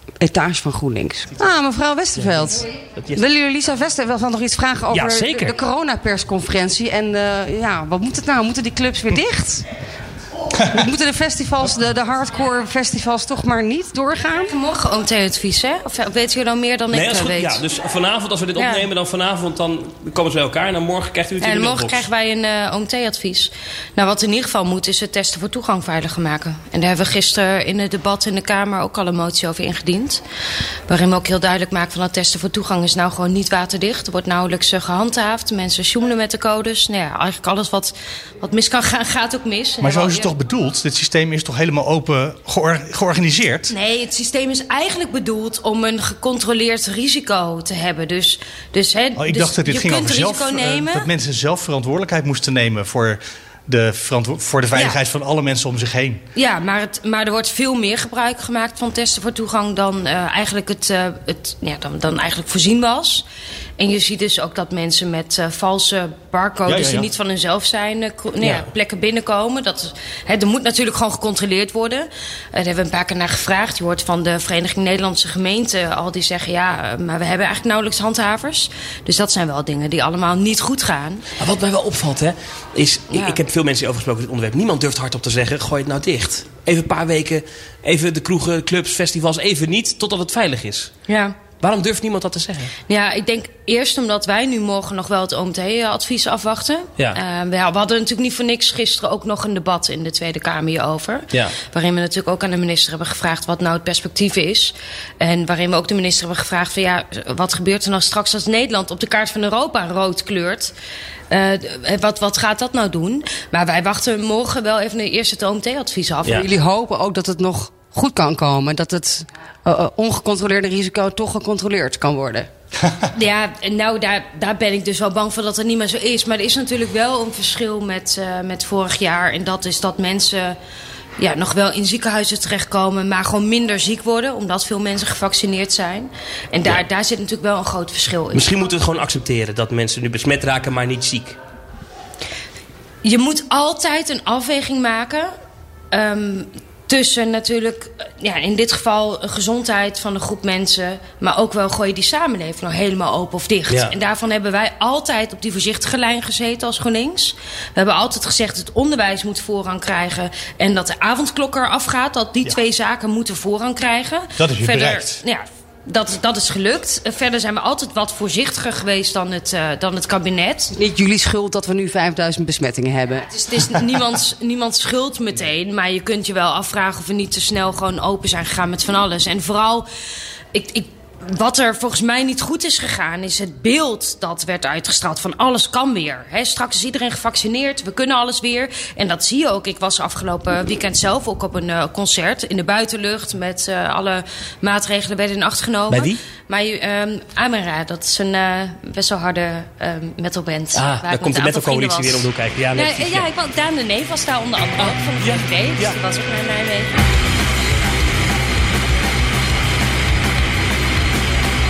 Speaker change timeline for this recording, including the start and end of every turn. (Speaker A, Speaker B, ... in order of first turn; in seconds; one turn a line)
Speaker A: 0.2-9.7
Speaker B: 2.2-3.2
Speaker B: 4.9-5.6
Speaker A: 10.7-14.5
Speaker C: 14.4-17.6
Speaker B: 16.9-22.1
Speaker C: 18.6-18.9
Speaker C: 21.4-30.2
Speaker C: 30.9-40.3
Speaker D: 39.8-43.7
Speaker C: 43.7-51.0
Speaker D: 49.1-56.2
Speaker C: 56.4-63.2
Speaker C: 63.8-81.2
Speaker D: 66.7-67.1
Speaker B: 68.4-68.7
Speaker B: 81.4-90.9
Speaker C: 91.1-91.4
Speaker B: 91.6-92.7
Speaker C: 92.9-110.7
Speaker B: 101.3-101.6
Speaker C: 111.3-116.4
Speaker A: 116.3-122.5
Speaker C: 123.2-130.6
Speaker C: 131.2-138.5
Speaker B: 138.3-141.4
Speaker C: 143.0-145.3
Speaker C: 145.9-170.7
Speaker B: 153.7-153.9
Speaker D: 164.4-165.2
Speaker A: 170.7-173.3
Speaker C: 173.2-179.8
Speaker C: 180.5-206.9
Speaker B: 195.9-196.2
Speaker B: 200.7-203.3
Speaker B: 204.8-206.0